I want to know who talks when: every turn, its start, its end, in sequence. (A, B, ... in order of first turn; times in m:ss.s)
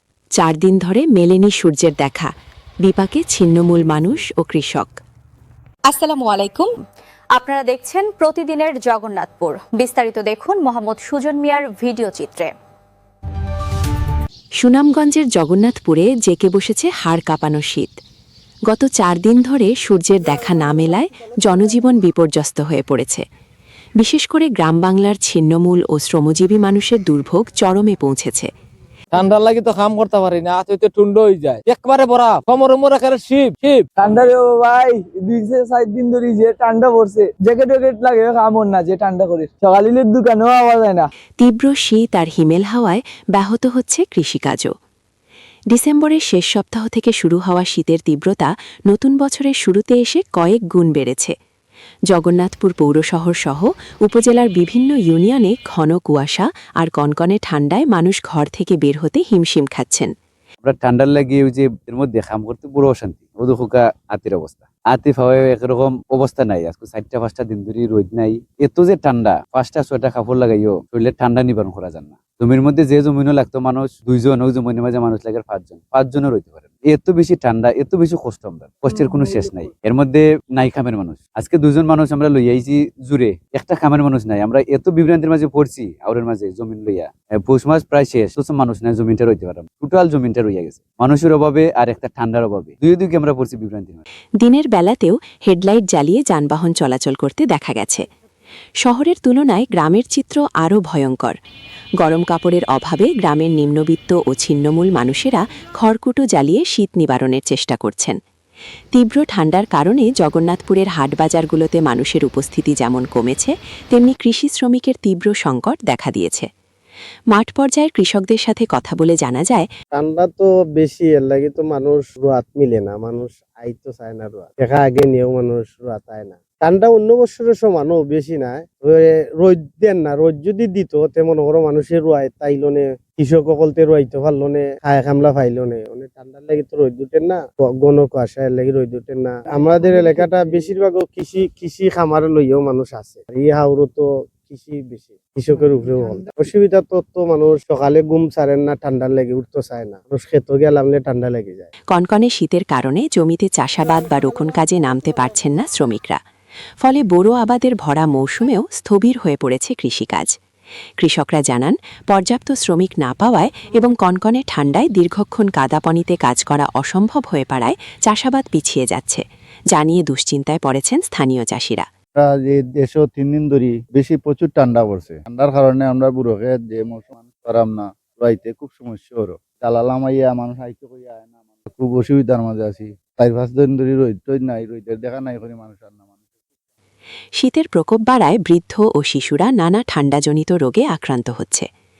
0:00.4-0:02.3 A
0:02.8-0:05.0 A
0:05.8-0:06.7 B
0:07.3-0:12.5 B
0:14.6-0:18.0 A
0:18.7-0:23.2 A
0:24.0-0:28.5 A
0:29.1-0:33.8 C
0:33.9-0:41.1 D
0:41.4-0:44.7 A
0:45.7-0:51.3 A
0:52.1-1:00.1 A
1:00.6-1:34.0 E
1:34.4-1:38.0 A
1:38.8-1:41.3 A
1:42.0-1:48.2 A
1:48.9-1:56.5 A
1:57.3-1:59.7 A
1:59.9-2:31.7 F
2:31.9-2:36.2 A
2:36.8-2:40.3 A
2:41.0-2:51.9 A
2:52.1-3:06.1 G
3:07.4-3:11.7 A